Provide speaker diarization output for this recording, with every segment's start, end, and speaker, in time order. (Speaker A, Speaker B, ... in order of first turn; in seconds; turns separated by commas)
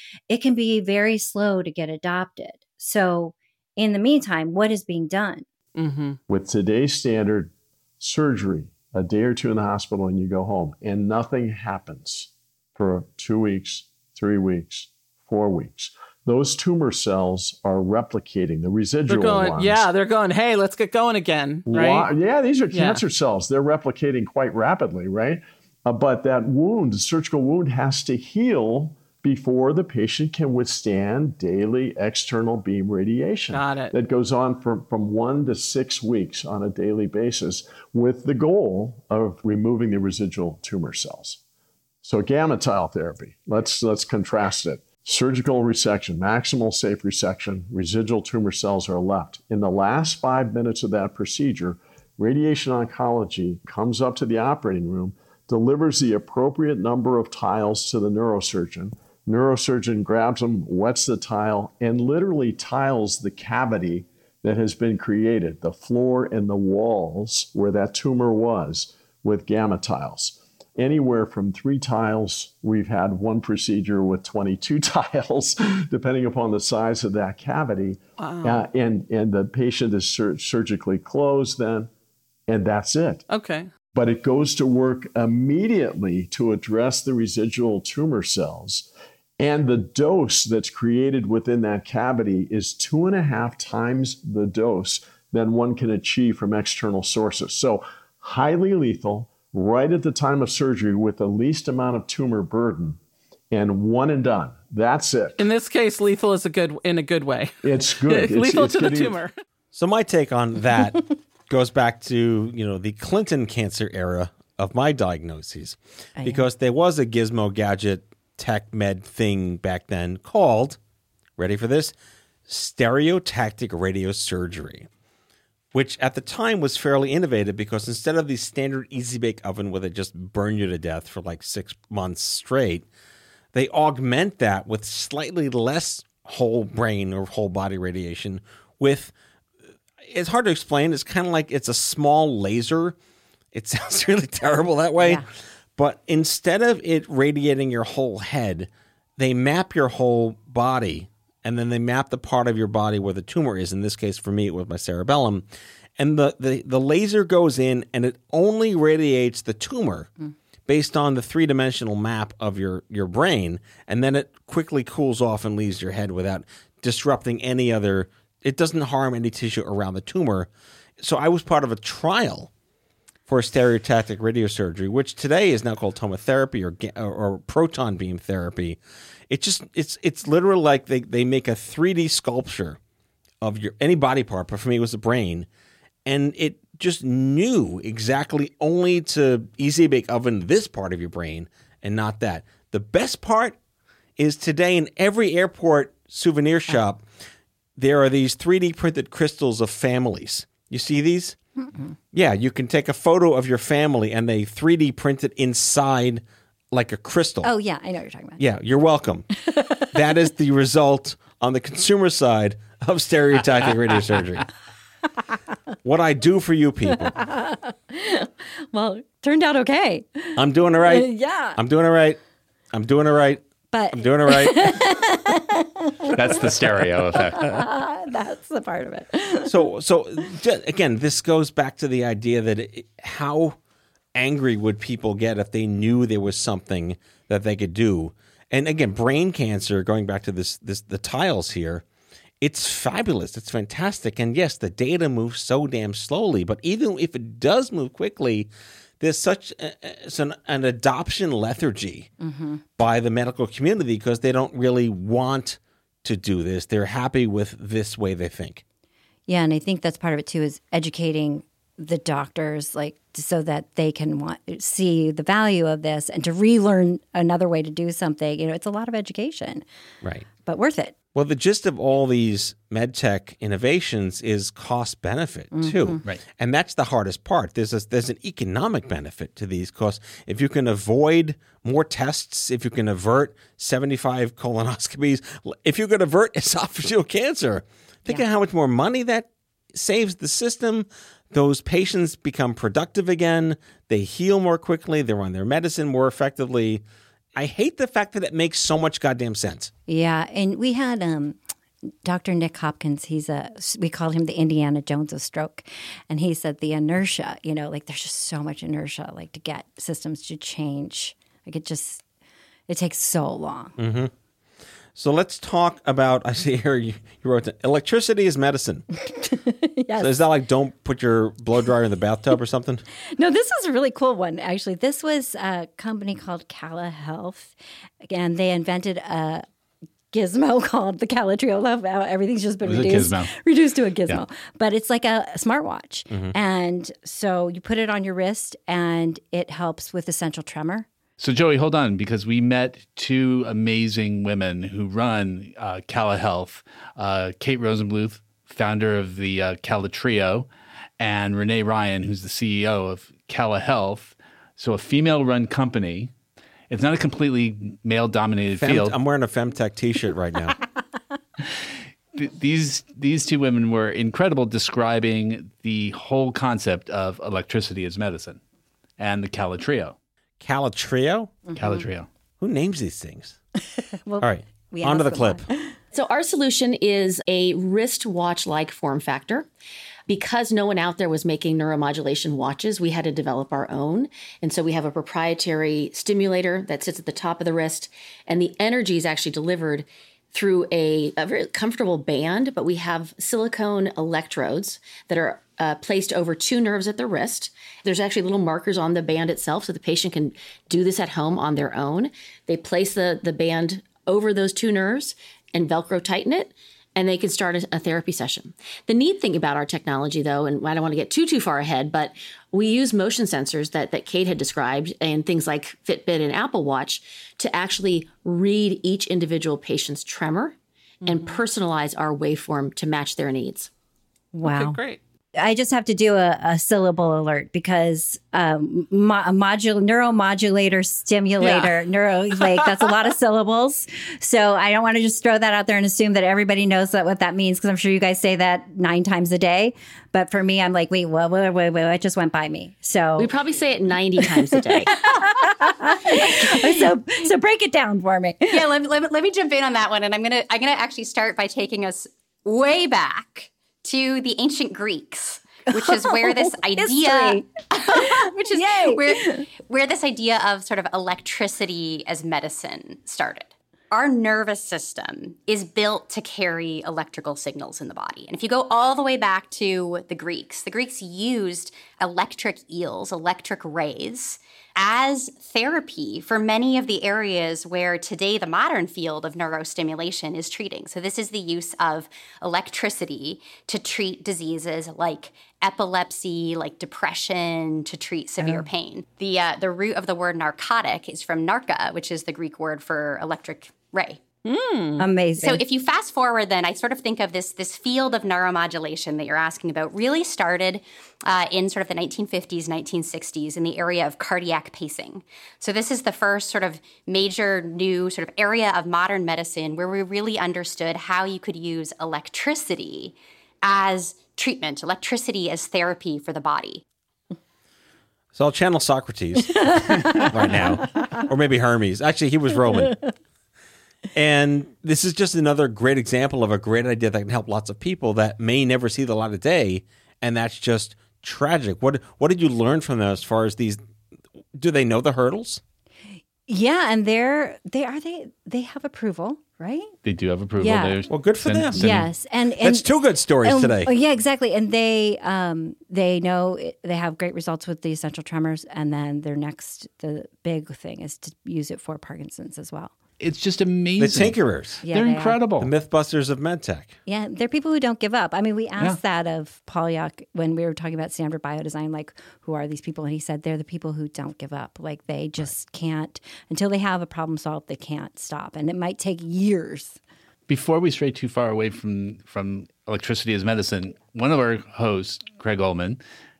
Speaker A: 0.3-5.4, Speaker B: 5.8-6.2, Speaker C: 6.3-19.9, Speaker B: 19.1-22.1, Speaker C: 21.7-41.4, Speaker B: 22.7-23.0, Speaker B: 33.5-33.9, Speaker C: 42.0-81.9, Speaker B: 78.2-78.7, Speaker C: 82.5-83.2, Speaker B: 83.3-83.7, Speaker C: 83.9-88.9, Speaker C: 89.4-103.0, Speaker C: 103.5-105.5, Speaker B: 105.4-109.3, Speaker C: 107.6-109.2, Speaker D: 109.7-120.8, Speaker A: 116.2-116.5, Speaker D: 121.4-121.9, Speaker D: 122.5-124.9, Speaker D: 125.7-132.8, Speaker D: 133.5-139.1, Speaker D: 140.0-142.9, Speaker D: 143.5-145.2, Speaker D: 145.8-155.4, Speaker D: 156.0-160.1, Speaker D: 160.7-170.5, Speaker D: 171.0-172.5, Speaker D: 173.3-182.8, Speaker D: 183.4-185.5, Speaker D: 186.0-193.6, Speaker D: 194.2-197.0, Speaker D: 197.8-201.4, Speaker A: 201.6-201.9, Speaker D: 202.1-207.5, Speaker A: 207.4-208.4, Speaker D: 208.4-209.3, Speaker A: 209.5-209.9, Speaker D: 209.9-214.4, Speaker D: 215.8-217.1, Speaker A: 217.0-221.6, Speaker D: 220.3-222.2, Speaker D: 222.7-223.4, Speaker A: 223.7-226.4, Speaker D: 223.9-224.9, Speaker E: 226.1-227.6, Speaker A: 227.1-229.5, Speaker D: 229.4-233.6, Speaker D: 234.1-241.8, Speaker D: 242.4-252.1, Speaker A: 252.2-252.6, Speaker D: 252.8-258.6, Speaker A: 259.3-269.6, Speaker D: 270.0-270.3, Speaker A: 270.4-270.9, Speaker D: 271.1-296.8, Speaker A: 275.5-276.0, Speaker D: 297.3-299.7, Speaker A: 299.9-301.4, Speaker A: 302.0-312.0, Speaker A: 312.7-313.8, Speaker D: 313.8-314.1, Speaker D: 314.9-318.8, Speaker A: 319.2-320.2, Speaker D: 320.0-322.8, Speaker A: 323.2-329.4, Speaker A: 330.1-340.9, Speaker E: 332.6-333.3, Speaker E: 341.2-350.5, Speaker E: 351.0-356.1, Speaker E: 356.7-358.9, Speaker D: 358.6-360.6, Speaker E: 362.1-368.4, Speaker E: 369.0-369.9, Speaker D: 370.4-371.3, Speaker A: 371.5-371.8, Speaker E: 371.6-372.1, Speaker D: 372.4-373.4, Speaker A: 374.0-375.7, Speaker D: 374.2-375.4, Speaker F: 375.9-379.5, Speaker F: 380.1-423.7, Speaker B: 421.1-421.4, Speaker A: 424.3-424.8, Speaker B: 424.4-425.0, Speaker A: 425.4-443.3, Speaker B: 431.4-431.8, Speaker B: 432.4-432.9, Speaker F: 443.2-445.0, Speaker A: 444.9-448.6, Speaker G: 448.5-494.2, Speaker A: 455.7-459.5, Speaker A: 488.4-488.7, Speaker B: 494.4-495.1, Speaker A: 495.0-495.6, Speaker G: 495.4-516.8, Speaker D: 518.3-523.0, Speaker A: 519.5-521.2, Speaker D: 524.1-533.8, Speaker D: 534.5-535.6, Speaker A: 536.5-539.9, Speaker E: 540.0-542.1, Speaker A: 540.6-541.0, Speaker D: 541.1-541.9, Speaker A: 541.7-542.9, Speaker D: 542.6-543.9, Speaker A: 543.4-552.9, Speaker E: 553.2-555.7, Speaker D: 554.0-554.8, Speaker A: 554.8-555.4, Speaker D: 555.6-556.9, Speaker A: 557.0-570.0, Speaker E: 570.5-576.0